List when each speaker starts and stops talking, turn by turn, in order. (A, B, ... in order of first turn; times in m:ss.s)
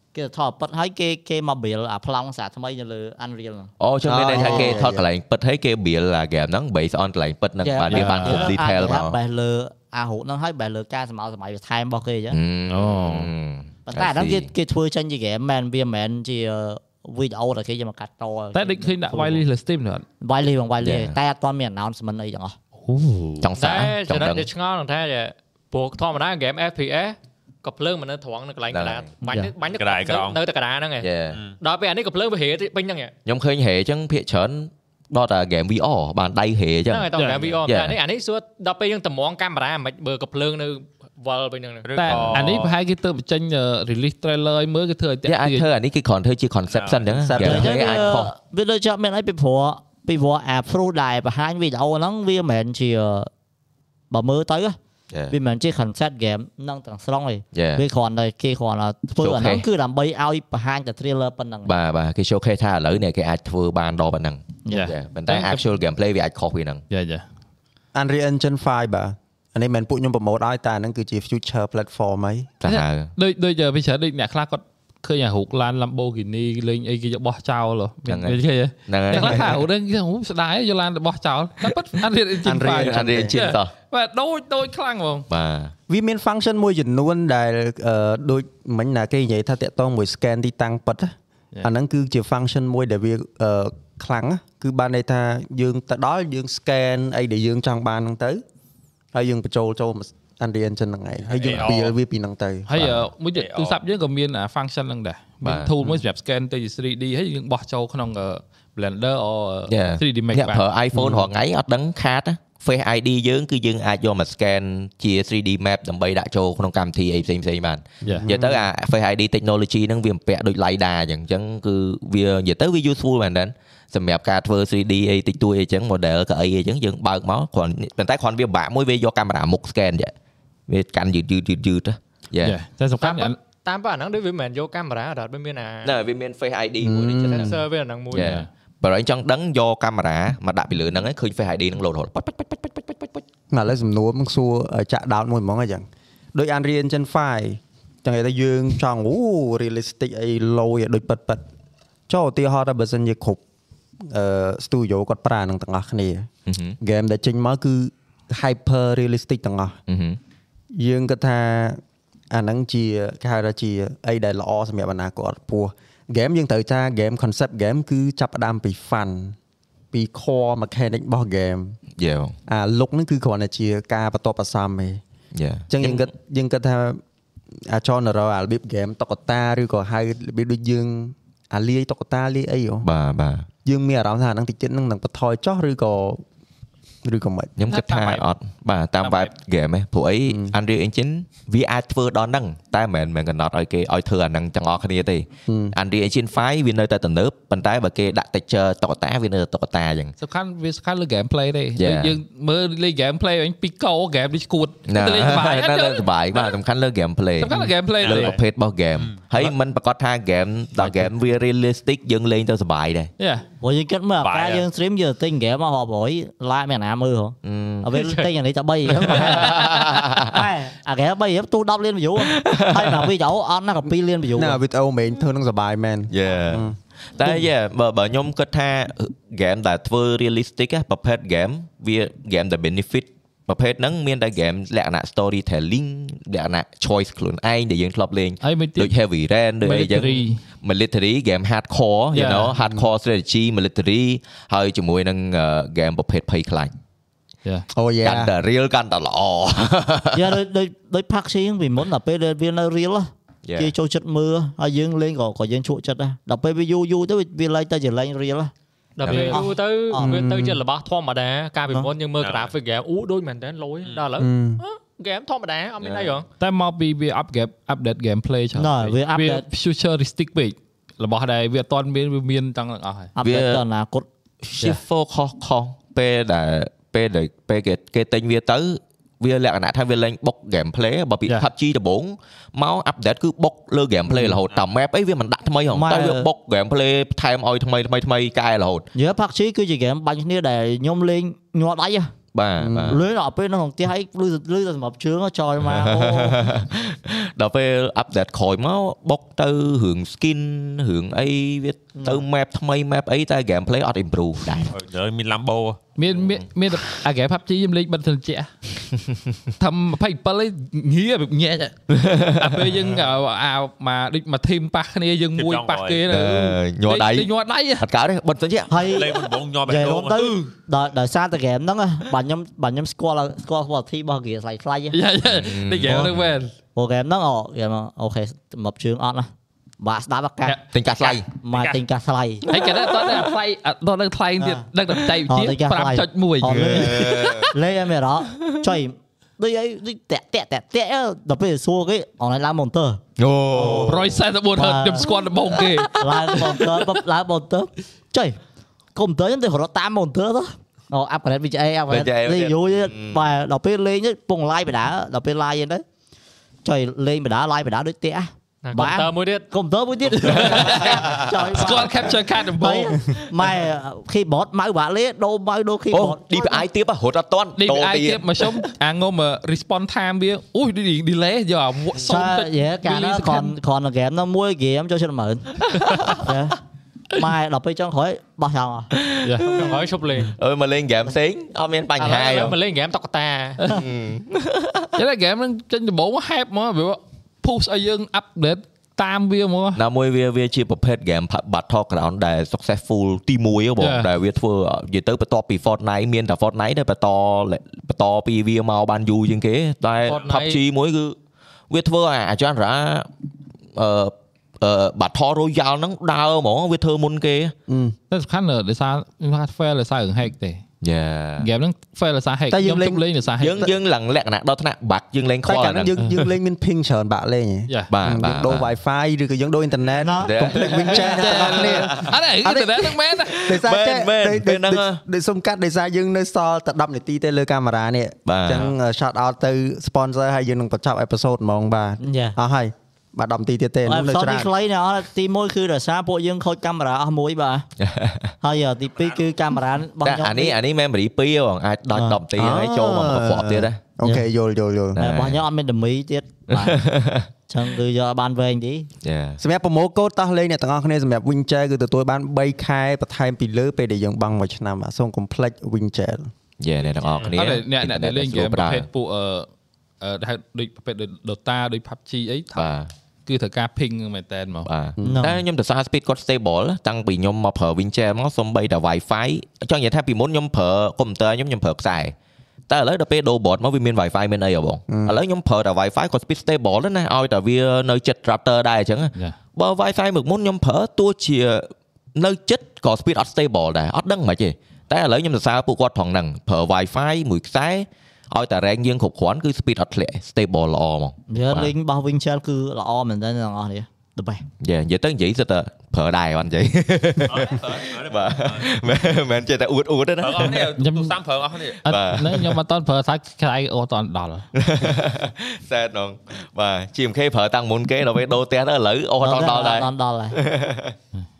0:00.1-0:03.7 A
0:03.8-0:09.2 B
0:04.0-0:05.0 C
0:04.3-0:04.8 A
0:07.6-0:12.4 A
0:07.9-0:08.6 D
0:12.3-0:14.5 B
0:12.7-0:13.3 D
0:13.9-0:19.4 A
0:18.5-0:20.0 D
0:20.2-0:22.6 A
0:20.8-0:21.2 B
0:22.8-0:23.5 D
0:23.4-0:24.5 B
0:23.6-0:33.1 E
0:28.7-0:29.1 B
0:29.6-0:30.4 F
0:31.0-0:31.4 B
0:31.3-0:31.6 F
0:33.3-0:37.1 B
0:36.9-0:41.9 E
0:37.2-0:37.4 D
0:37.3-0:37.6 F
0:37.7-0:38.0 B
0:41.8-0:42.8 F
0:42.0-0:45.7 D
0:42.1-0:42.6 B
0:45.3-0:48.3 B
0:46.7-0:47.3 F
0:47.2-0:47.9 C
0:47.4-0:53.3 A
0:54.1-0:54.8 A
0:55.3-1:01.7 A
0:57.6-0:57.8 B
0:59.2-0:59.7 B
1:01.6-1:06.8 B
1:04.7-1:05.6 D
1:06.9-1:07.3 D
1:07.9-1:12.5 C
1:12.6-1:13.1 B
1:12.6-1:25.3 D
1:18.1-1:19.6 B
1:22.4-1:23.4 C
1:22.7-1:23.7 B
1:25.3-1:25.7 B
1:25.9-1:38.4 C
1:39.1-1:42.7 C
1:41.3-1:42.0 F
1:42.7-1:50.6 D
1:42.8-1:43.1 B
1:43.3-1:43.8 F
1:45.4-1:45.7 B
1:49.7-2:10.1 B
1:50.9-1:51.3 C
1:58.2-1:58.7 C
2:10.7-2:12.6 B
2:12.4-2:13.4 D
2:13.0-2:16.0 E
2:15.8-2:17.6 B
2:16.8-2:17.6 C
2:17.3-2:18.4 E
2:18.1-2:23.2 B
2:18.1-2:18.5 D
2:23.5-2:31.4 C
2:32.1-2:33.4 C
2:34.0-2:36.3 C
2:36.5-2:36.8 B
2:36.8-2:39.8 C
2:39.9-2:40.2 B
2:40.7-2:41.8 C
2:42.3-2:49.4 C
2:49.9-2:51.8 C
2:52.0-2:52.4 B
2:52.5-2:55.0 C
2:55.4-2:56.1 B
2:55.7-2:57.0 C
2:57.6-3:02.9 C
3:02.8-3:03.5 B
3:03.6-3:06.2 C
3:07.0-3:07.5 C
3:07.6-3:20.1 B
3:07.7-3:08.3 D
3:09.0-3:09.3 D
3:10.3-3:10.6 C
3:15.5-3:15.8 C
3:20.2-3:26.6 D
3:21.8-3:22.1 B
3:24.9-3:33.1 B
3:27.4-3:28.4 D
3:28.0-3:28.4 F
3:29.0-3:29.5 F
3:30.8-3:31.1 D
3:33.2-3:33.4 D
3:33.6-3:44.6 A
3:34.2-3:34.7 F
3:37.4-3:37.9 B
3:37.9-3:38.3 E
3:38.9-3:40.4 B
3:42.2-3:43.1 B
3:44.4-3:47.5 C
3:46.1-4:06.7 B
3:58.4-3:58.9 D
3:59.6-4:00.4 D
4:02.1-4:02.5 D
4:02.6-4:02.8 C
4:07.7-4:08.3 C
4:08.0-4:10.4 B
4:10.1-4:18.5 A
4:13.5-4:13.7 B
4:19.0-4:26.3 E
4:19.0-4:19.4 B
4:19.1-4:19.5 D
4:19.9-4:20.2 A
4:20.0-4:20.6 C
4:22.2-4:22.6 F
4:23.8-4:24.1 F
4:24.2-4:24.6 C
4:25.8-4:26.2 B
4:26.4-4:33.1 D
4:28.6-4:29.4 A
4:33.2-4:34.1 A
4:33.2-4:33.6 B
4:34.4-4:48.9 B
4:44.1-4:44.4 C
4:45.7-4:46.3 A
4:49.0-4:52.1 A
4:52.3-4:53.0 B
4:52.6-4:53.0 C
4:52.9-4:56.5 A
4:55.6-5:04.7 B
5:02.0-5:02.2 A
5:04.7-5:05.8 F
5:06.0-5:08.5 D
5:09.6-5:11.8 D
5:11.9-5:12.6 B
5:12.4-5:17.9 D
5:15.4-5:16.1 F
5:16.1-5:19.0 B
5:18.7-5:25.0 A
5:18.8-5:20.5 F
5:24.9-5:26.5 D
5:25.3-5:26.2 B
5:25.9-5:26.1 A
5:26.8-5:30.6 A
5:30.7-5:31.3 B
5:31.4-5:32.4 A
5:31.5-5:31.8 F
5:32.4-5:37.5 D
5:34.4-5:34.7 A
5:35.3-5:43.0 A
5:36.4-5:37.5 B
5:43.2-5:44.2 B
5:43.7-5:47.0 D
5:44.6-5:48.4 A
5:49.0-5:55.8 A
5:51.9-5:53.2 B
5:56.6-6:06.7 A
5:58.6-5:59.5 E
6:00.2-6:03.0 D
6:00.3-6:01.5 B
6:05.9-6:08.6 B
6:07.6-6:13.6 D
6:12.0-6:16.6 A
6:15.8-6:16.1 B
6:17.1-6:18.9 A
6:18.9-6:22.6 B
6:19.2-6:19.7 D
6:19.4-6:20.4 E
6:22.0-6:23.8 E
6:23.7-6:24.9 B
6:25.0-6:29.8 D
6:29.8-6:41.2 B
6:33.8-6:34.1 D
6:40.0-6:40.6 E
6:41.7-6:43.1 B
6:43.8-6:47.5 B
6:47.7-6:48.0 C
6:48.1-6:50.6 D
6:50.8-6:51.5 B
6:51.4-6:53.7 D
6:52.5-6:53.0 C
6:53.4-6:55.9 B
6:55.5-7:14.5 C
6:57.9-6:58.8 B
7:00.0-7:01.4 A
7:00.2-7:02.2 B
7:01.2-7:03.4 D
7:03.3-7:05.0 B
7:08.3-7:08.8 B
7:12.0-7:12.4 A
7:13.9-7:17.7 A
7:17.8-7:18.3 B
7:18.4-7:20.6 A
7:19.0-7:19.3 F
7:20.0-7:23.8 B
7:22.4-7:25.0 C
7:25.0-7:25.4 B
7:25.0-7:26.8 A
7:26.5-7:27.3 B
7:27.5-7:28.9 A
7:29.0-7:29.4 B
7:29.4-7:36.3 C
7:36.6-7:38.9 B
7:36.8-7:37.4 F
7:37.4-7:39.5 D
7:40.0-7:42.7 D
7:42.6-7:42.9 B
7:43.3-7:44.7 D
7:44.6-7:52.1 B
7:45.0-7:45.3 C
7:45.0-7:45.4 A
7:52.7-8:11.7 B
7:54.9-7:55.2 C
8:11.3-8:14.5 A
8:14.6-8:20.7 B
8:17.3-8:18.8 F
8:20.2-8:21.8 F
8:20.8-8:21.2 D
8:21.8-8:24.5 D
8:21.8-8:22.5 B
8:24.6-8:31.0 B
8:29.2-8:30.4 A